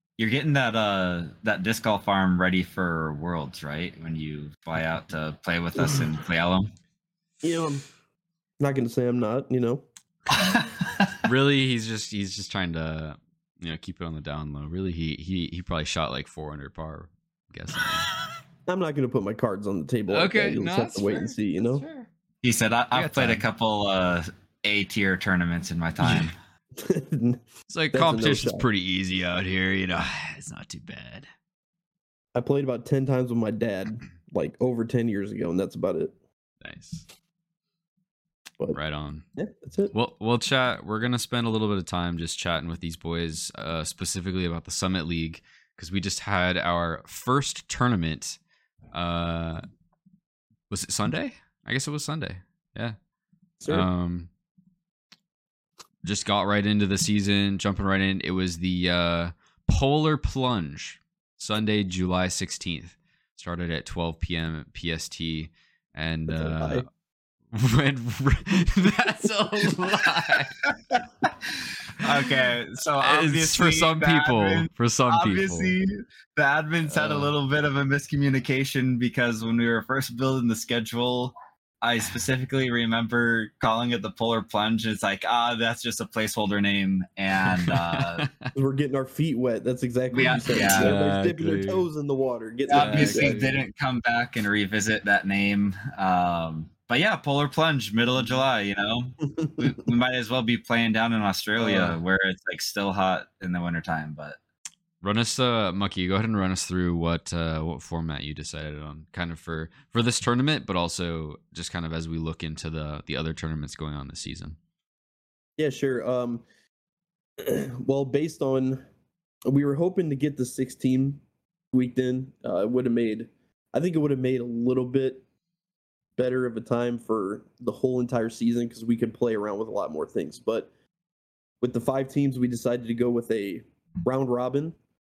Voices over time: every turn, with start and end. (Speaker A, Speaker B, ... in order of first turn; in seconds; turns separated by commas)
Speaker A: 0.2-6.7, Speaker B: 7.4-7.9, Speaker B: 8.6-9.9, Speaker A: 10.3-11.2, Speaker C: 11.2-18.1, Speaker B: 18.7-21.8, Speaker C: 20.1-22.1, Speaker A: 22.4-26.4, Speaker C: 22.9-23.4, Speaker B: 26.8-28.7, Speaker C: 27.7-31.2, Speaker B: 32.3-36.1, Speaker C: 36.6-37.0, Speaker C: 38.7-39.2, Speaker B: 39.4-39.9, Speaker C: 39.9-48.4, Speaker C: 48.9-49.6, Speaker C: 50.7-53.0, Speaker B: 53.6-53.9, Speaker C: 53.7-54.3, Speaker C: 56.0-66.8, Speaker B: 66.3-66.8, Speaker C: 67.5-70.6, Speaker A: 72.0-88.3, Speaker C: 73.0-75.8, Speaker C: 76.9-77.3, Speaker B: 88.5-93.4, Speaker A: 90.1-91.0, Speaker C: 90.2-91.9, Speaker A: 92.7-104.4, Speaker C: 92.7-93.6, Speaker C: 101.6-101.9, Speaker C: 105.0-114.6, Speaker B: 115.6-116.4, Speaker B: 117.4-118.8, Speaker B: 119.5-125.2, Speaker B: 126.2-130.7, Speaker B: 131.6-134.8